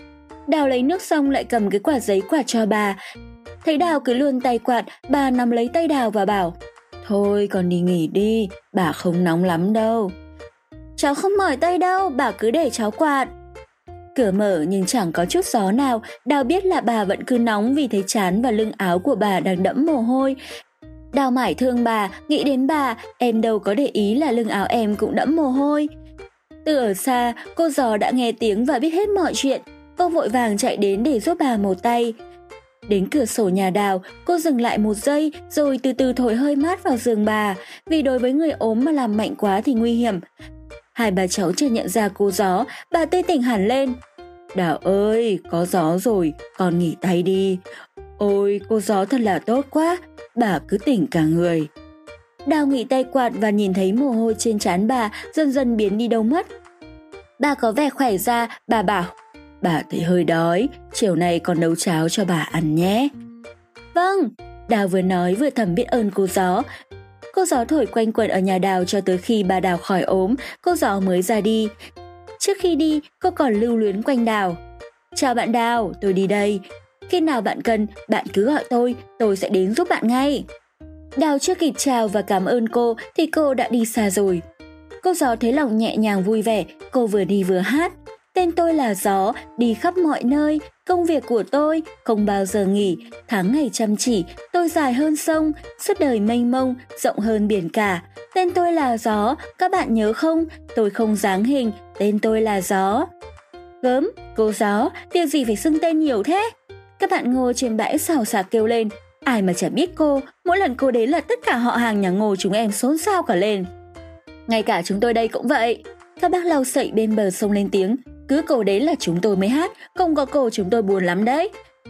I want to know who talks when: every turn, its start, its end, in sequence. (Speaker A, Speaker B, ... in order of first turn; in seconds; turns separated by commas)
Speaker A: 0.5-3.0, Speaker A: 3.6-10.1, Speaker A: 11.0-13.3, Speaker A: 14.2-20.4, Speaker A: 21.1-25.9, Speaker A: 26.6-32.1, Speaker A: 32.9-40.2, Speaker A: 41.0-44.0, Speaker A: 44.5-47.6, Speaker A: 48.2-51.7, Speaker A: 52.5-56.5, Speaker A: 57.4-63.1, Speaker A: 63.9-66.7, Speaker A: 67.3-71.7, Speaker A: 72.4-74.6, Speaker A: 75.2-80.5, Speaker A: 81.2-84.4, Speaker A: 85.0-103.1, Speaker A: 103.8-106.5, Speaker A: 107.0-113.7, Speaker A: 114.5-121.5